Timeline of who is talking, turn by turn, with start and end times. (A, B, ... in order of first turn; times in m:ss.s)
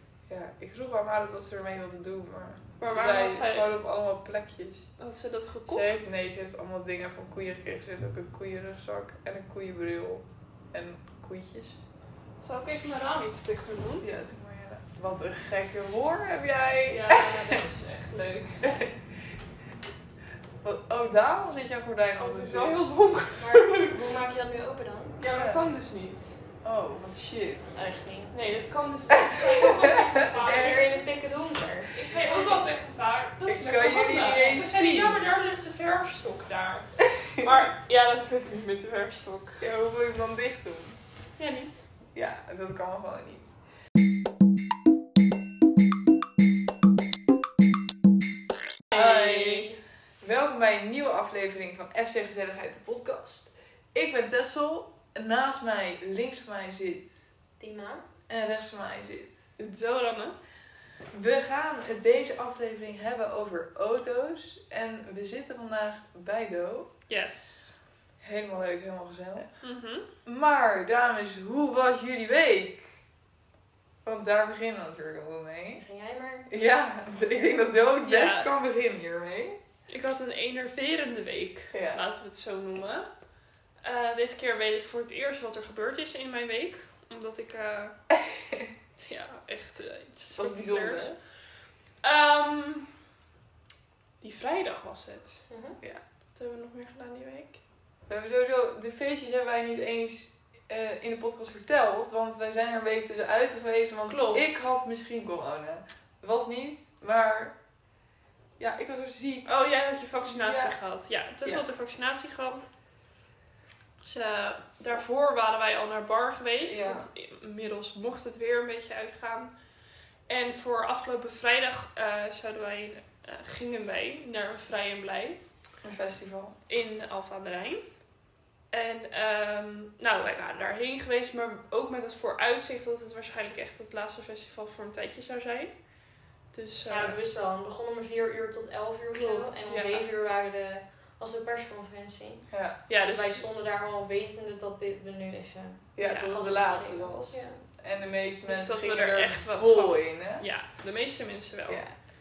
0:00.3-0:04.9 A
0:02.8-0:03.7 B
0:05.0-0:06.0 B
0:05.7-0:11.8 A
0:12.4-0:14.1 B
0:14.0-0:17.6 A
0:16.9-0:18.7 B
0:18.6-0:19.0 A
0:20.6-0:22.8 A
0:22.2-0:24.0 B
0:23.4-0:25.2 C
0:25.2-0:26.4 B
0:25.3-0:25.6 A
0:26.6-0:27.6 A
0:27.8-0:28.3 C
0:28.3-0:31.0 B
0:29.1-0:30.9 A
0:30.3-0:32.6 C
0:31.9-0:39.6 B
0:33.4-0:35.3 A
0:37.0-0:37.5 A
0:39.6-0:41.0 A
0:41.4-0:41.8 B
0:42.1-0:43.6 A
0:48.9-0:49.7 B
0:48.9-0:49.7 A
0:50.2-0:57.2 A
0:57.6-0:58.0 C
0:58.3-0:59.6 A
0:59.6-1:00.4 B
1:01.1-1:06.9 A
1:07.1-1:07.8 B
1:08.2-1:09.5 A
1:09.6-1:10.1 B
1:10.2-1:12.9 A
1:14.0-1:15.8 A
1:15.8-1:16.5 C
1:16.5-1:19.6 A
1:18.0-1:18.5 B
1:19.9-1:23.1 B
1:21.7-1:22.0 A
1:23.8-1:28.0 B
1:28.1-1:28.7 A
1:29.0-1:31.1 B
1:30.4-1:31.2 A
1:32.0-1:32.9 B
1:34.2-1:35.5 B
1:35.5-1:35.8 C
1:36.4-1:37.6 B
1:38.1-1:47.6 A
1:44.1-1:44.5 B
1:48.6-1:49.5 A
1:49.5-1:52.7 B
1:50.3-1:50.8 A
1:54.0-1:59.5 B
1:56.6-1:57.1 A
2:00.3-2:05.4 B
2:05.8-2:06.6 A
2:06.7-2:07.8 B
2:08.7-2:15.7 B
2:16.5-2:17.2 B
2:16.9-2:22.5 C
2:19.1-2:20.0 B
2:22.5-2:22.8 A
2:22.9-2:23.5 B
2:23.0-2:27.6 C
2:26.0-2:30.4 A
2:26.0-2:26.3 B
2:28.5-2:31.8 B